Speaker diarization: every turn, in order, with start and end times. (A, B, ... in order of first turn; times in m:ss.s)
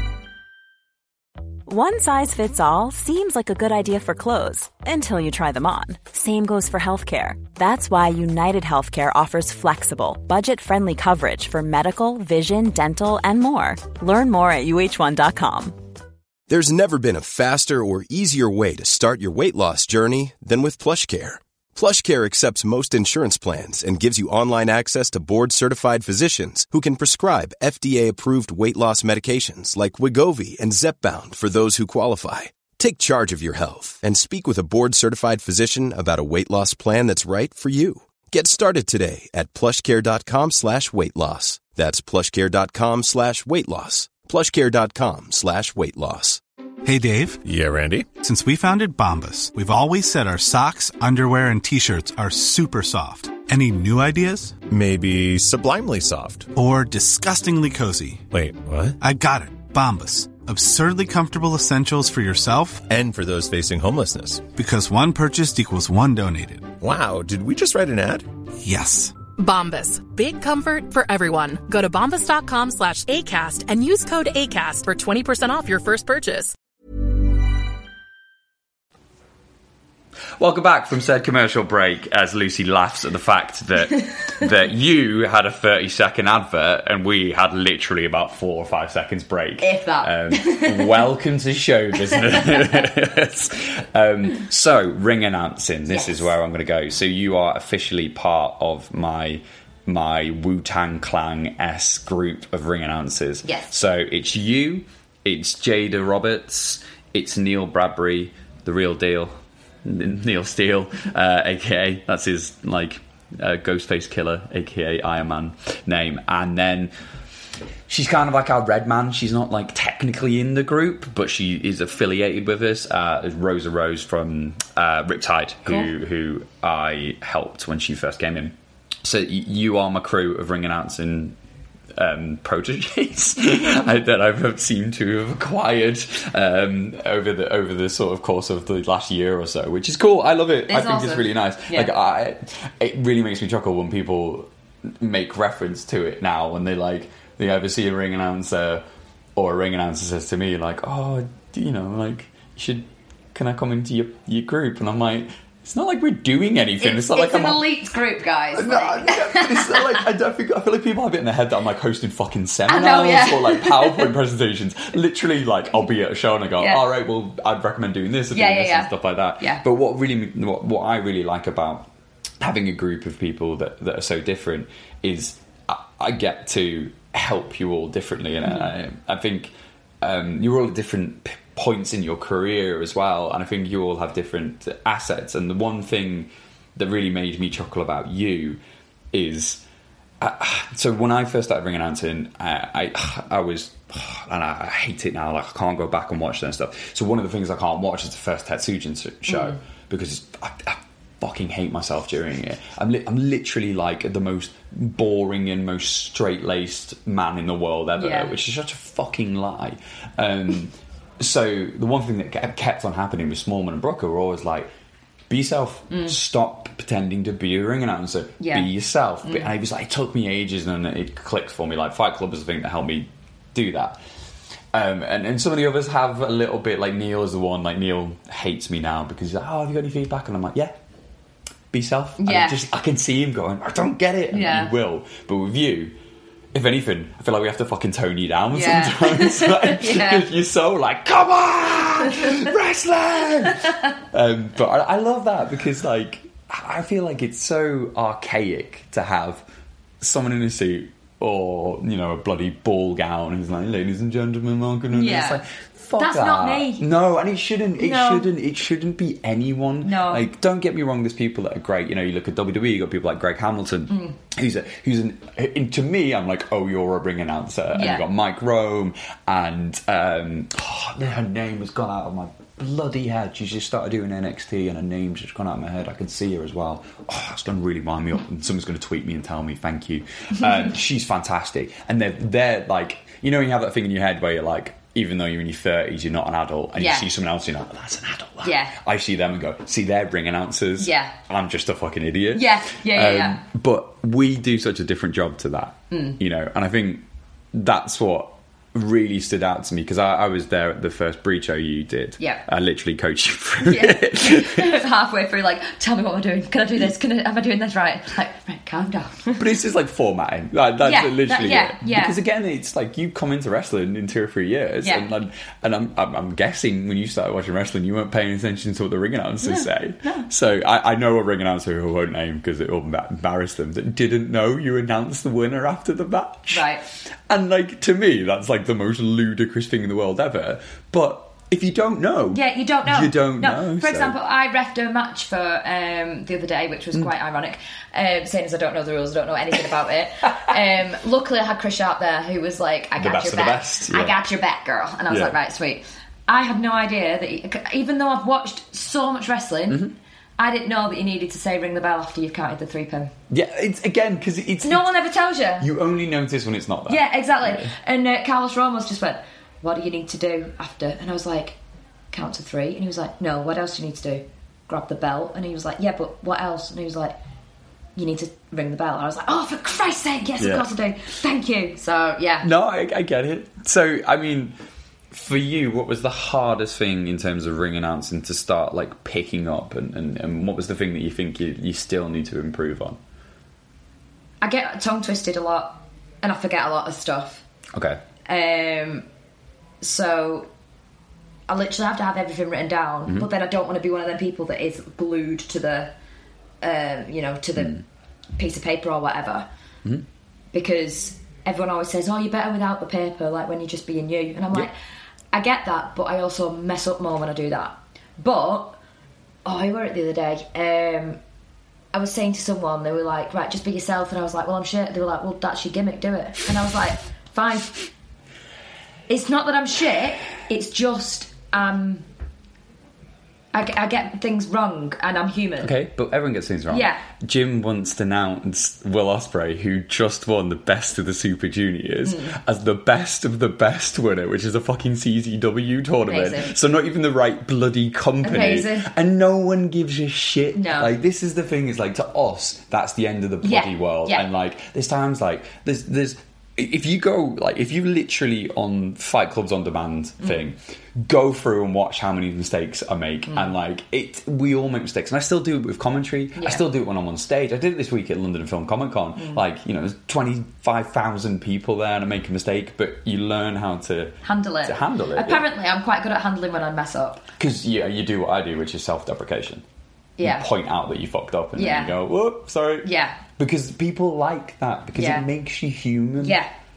0:01.7-0:15.8 A
0:16.5-0:46.4 B
0:46.8-0:47.4 C
0:47.4-0:48.1 D
0:48.2-0:54.6 C
0:54.6-0:56.5 D
0:56.5-0:58.3 C
0:58.3-0:59.0 D
0:59.0-1:02.9 C
1:02.9-1:04.5 D
1:04.5-1:06.8 C
1:06.8-1:08.3 D
1:08.6-1:09.2 C
1:09.4-1:16.5 E
1:20.4-1:56.9 F
1:29.6-1:31.0 G
1:35.9-1:36.3 G
1:43.4-1:43.7 G
1:57.9-2:11.4 F
2:12.0-2:28.8 F
2:20.7-2:21.9 G
2:29.4-2:37.6 F
2:36.8-2:40.0 G
2:38.5-2:51.9 F
2:42.7-2:44.1 G
2:48.3-2:49.6 G
2:52.4-3:08.6 F
3:09.1-3:09.6 F
3:10.2-3:34.7 F
3:19.3-3:19.6 G
3:28.0-3:28.3 G
3:35.3-3:44.0 F
3:38.4-3:38.7 G
3:39.2-3:39.5 G
3:44.7-3:50.8 F
3:51.7-3:56.0 F
3:52.2-3:52.6 G
3:54.3-3:54.7 G
3:56.5-4:09.5 F
3:58.5-4:00.3 G
4:10.0-5:04.7 F
4:14.9-4:15.4 G
4:16.0-4:16.8 G
4:17.8-4:18.3 G
4:19.8-4:20.2 G
4:23.9-4:24.2 G
4:27.7-4:28.0 G
4:46.8-4:47.1 G
4:48.4-4:48.8 G
4:50.8-4:51.1 G
4:52.3-4:53.4 G
4:55.9-4:56.2 G
5:02.2-5:02.4 G
5:03.6-5:09.4 G
5:09.4-5:26.7 F
5:10.8-5:12.2 G
5:19.4-5:20.3 G
5:26.5-5:26.8 G
5:27.3-5:34.2 F
5:32.3-5:49.8 G
5:43.0-5:44.2 F
5:45.1-5:45.4 F
5:49.7-5:49.9 F
5:50.4-5:53.1 G
5:53.3-5:55.0 F
5:54.6-5:55.7 G
5:55.6-5:57.7 F
5:56.9-6:01.6 G
6:02.1-6:07.2 G
6:08.0-6:12.5 G
6:10.4-6:10.7 F
6:12.4-6:14.6 F
6:15.1-6:23.0 F
6:24.4-6:27.4 G
6:27.7-6:28.0 F
6:28.3-6:29.0 G
6:29.8-6:30.5 G
6:31.5-6:35.9 G
6:36.6-6:37.8 G
6:37.6-6:37.8 F
6:38.4-6:39.5 G
6:40.5-6:44.7 G
6:45.3-6:48.8 G
6:49.4-6:51.2 G
6:51.9-6:57.8 G
6:59.1-7:02.0 G
7:03.5-7:05.7 G
7:05.6-7:45.4 F
7:06.7-7:07.0 G
7:12.0-7:12.4 G
7:16.1-7:16.6 G
7:18.2-7:18.9 G
7:20.5-7:20.9 G
7:23.4-7:24.3 G
7:33.3-7:33.5 G
7:36.4-7:36.6 G
7:44.2-7:47.2 G
7:47.4-7:49.6 F
7:50.2-7:50.5 G
7:50.2-7:56.4 F
7:51.6-7:51.9 G
7:52.8-7:53.2 G
7:55.0-7:55.2 G
7:56.2-7:56.5 G